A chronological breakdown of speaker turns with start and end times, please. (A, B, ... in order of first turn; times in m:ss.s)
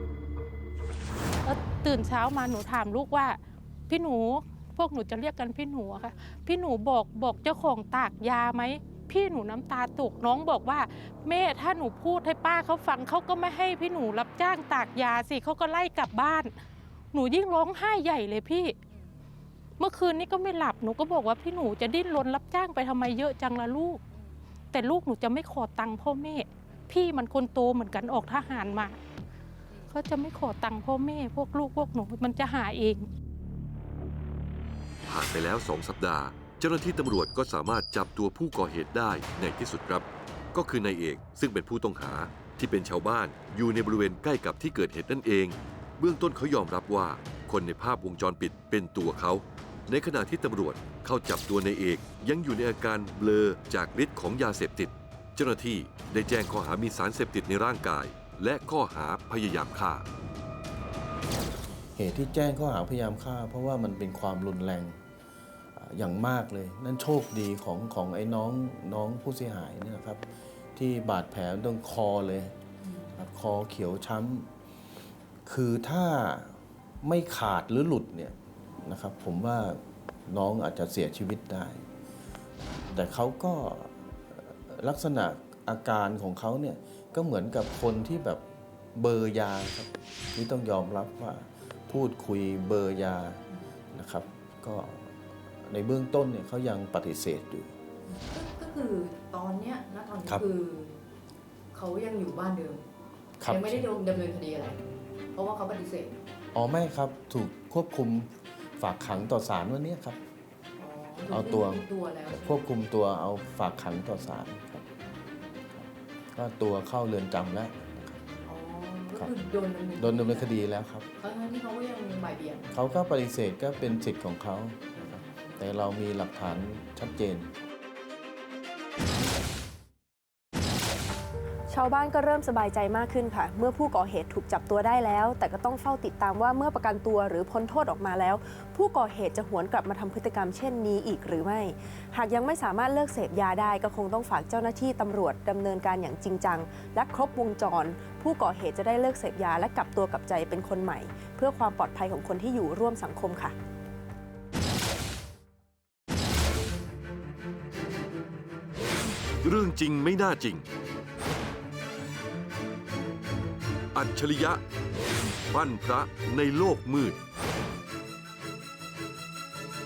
0:01.4-0:16.5 A
0:17.1-0:18.8 A
0:19.8-0:24.0 A
0:24.7-0:29.0 A
0:29.9-0:33.1 A
0:35.0-1:00.1 B
1:02.0-1:05.0 C
1:05.8-1:12.6 C
1:13.1-1:14.5 C
1:15.5-1:21.8 C
1:22.9-1:28.4 C
1:29.0-1:33.4 C
1:33.9-1:35.1 C
1:35.7-1:37.7 C
1:38.2-1:41.0 D
1:41.7-1:42.8 D
1:43.4-1:43.9 C
1:43.4-1:44.8 D
1:45.3-1:46.2 D
1:46.5-1:50.2 C
1:50.8-1:52.6 D
1:51.3-1:54.8 C
1:55.8-1:58.2 C
1:58.4-2:00.6 D
2:00.0-2:01.1 C
2:01.2-2:02.7 D
2:02.7-2:07.5 C
2:11.7-2:33.6 E
2:39.4-2:40.7 B
2:43.9-2:44.6 B
2:45.5-2:47.2 B